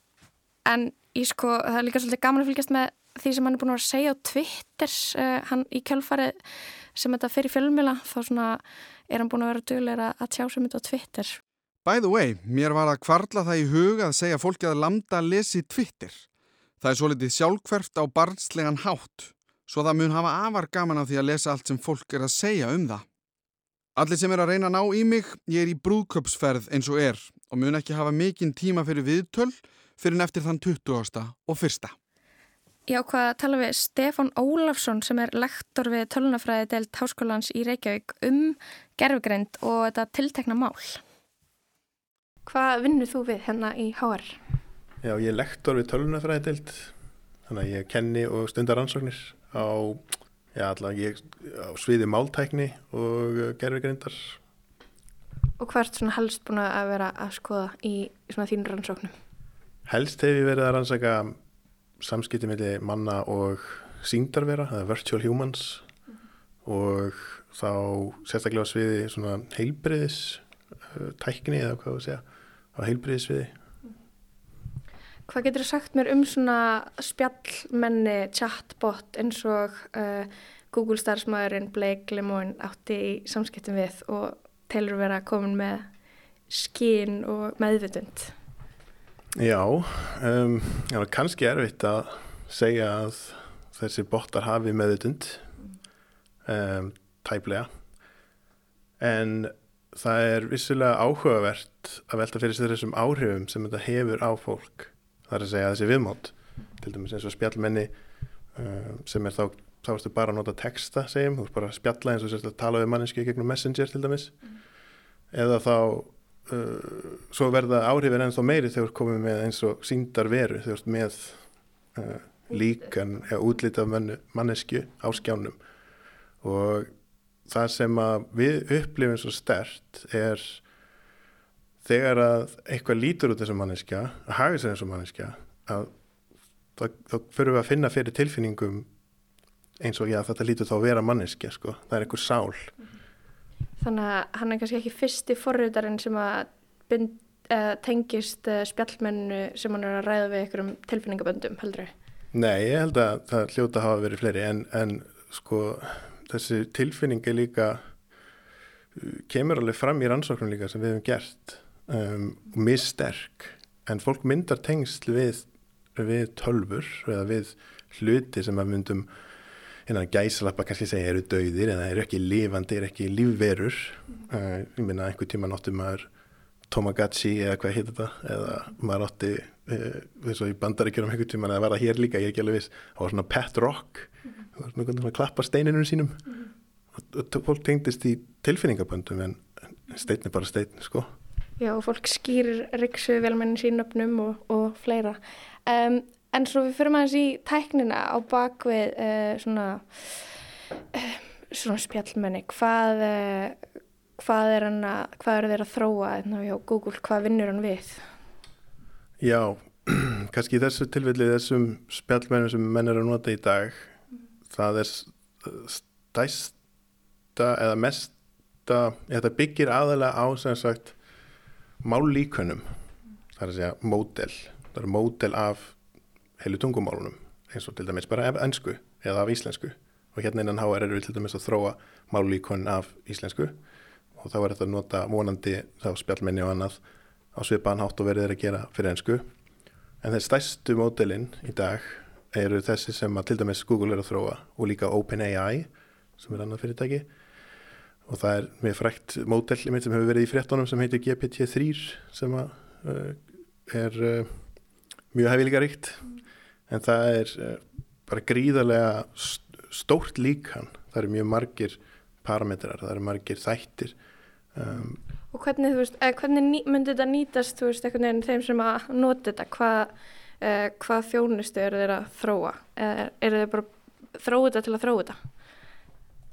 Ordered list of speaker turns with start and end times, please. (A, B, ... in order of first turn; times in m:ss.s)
0:00.7-0:06.4 A
0:07.0-0:11.4 A
0:11.8-0:16.3 B
0:16.8-0:23.1 B
0:24.0-0:32.0 B
0:32.9-0:41.0 A
0:42.5-0:44.4 A
0:45.0-0:46.9 C
0:47.5-0:54.4 C
0:55.6-0:59.2 A
0:59.9-1:01.4 C
1:02.0-1:05.9 C
1:06.6-1:13.6 C
1:15.3-1:25.9 A
1:26.5-1:28.3 A
1:29.4-1:35.5 C
1:36.4-1:37.7 C
1:39.0-1:47.9 C
1:48.5-1:54.4 C
1:55.3-2:01.4 C
2:02.0-2:05.6 C
2:06.4-2:06.9 C
2:07.5-2:10.6 C
2:11.8-2:15.9 C
2:16.8-2:18.9 C
2:19.8-2:22.7 C
2:23.8-2:31.9 A
2:32.3-2:37.9 C
2:39.0-2:49.1 C
2:49.9-2:56.1 C
2:56.7-3:06.3 C
3:06.9-3:11.1 C
3:11.6-3:20.3 A
3:20.9-3:23.6 A
3:24.2-3:28.0 A
3:29.2-3:36.6 C
3:37.4-3:41.0 C
3:41.8-3:42.7 C
3:43.4-3:45.8 C
3:46.4-3:53.6 C
3:54.2-3:56.8 C
3:57.3-3:59.3 C
4:00.0-4:07.1 C
4:08.1-4:14.4 C
4:15.1-4:16.1 C
4:16.7-4:24.0 C
4:24.5-4:25.0 C
4:25.3-4:35.2 A